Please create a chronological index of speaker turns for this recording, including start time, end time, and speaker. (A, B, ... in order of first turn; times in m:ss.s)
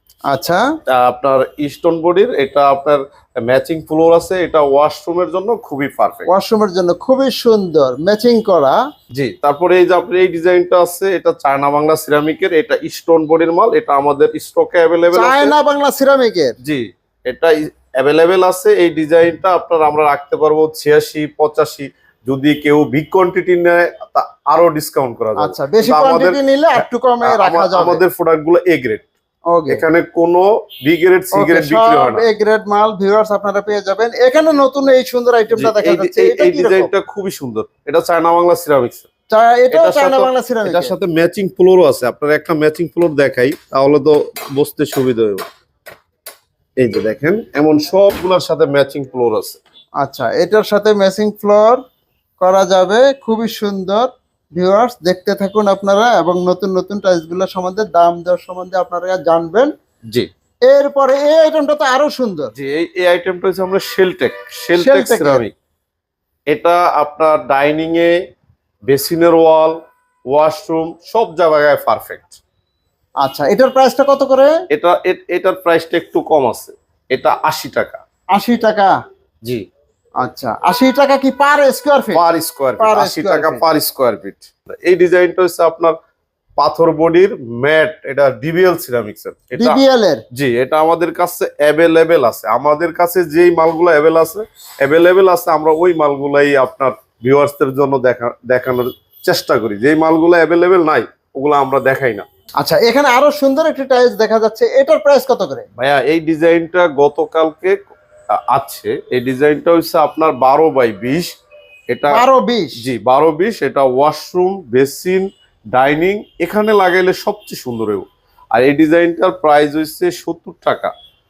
0:00.3-0:00.6 A
0:00.9-0:06.3 B
0:06.3-0:08.8 A
0:09.1-0:15.5 B
0:15.1-0:16.5 A
0:16.6-0:29.1 B
0:25.4-0:28.0 A
0:29.5-0:29.8 A
0:29.7-0:32.2 B
0:31.3-0:36.9 A
0:35.5-0:39.0 B
0:39.3-0:40.9 A
0:39.7-0:45.4 B
0:46.8-0:49.6 B
0:50.0-0:51.8 A
0:52.4-0:59.7 A
1:00.7-1:02.5 A
1:02.5-1:05.5 B
1:04.8-1:05.4 A
1:06.5-1:08.2 B
1:08.9-1:09.8 B
1:10.3-1:12.4 B
1:13.2-1:14.5 A
1:14.7-1:18.0 B
1:18.3-1:18.9 A
1:20.2-1:22.2 A
1:22.1-1:26.0 B
1:22.8-1:23.6 A
1:26.6-1:29.8 B
1:29.6-1:30.2 A
1:30.3-1:42.2 B
1:42.6-1:45.6 A
1:45.8-1:47.8 B
1:48.5-1:51.3 B
1:51.9-1:52.2 B
1:52.1-1:52.8 A
1:52.8-2:00.9 B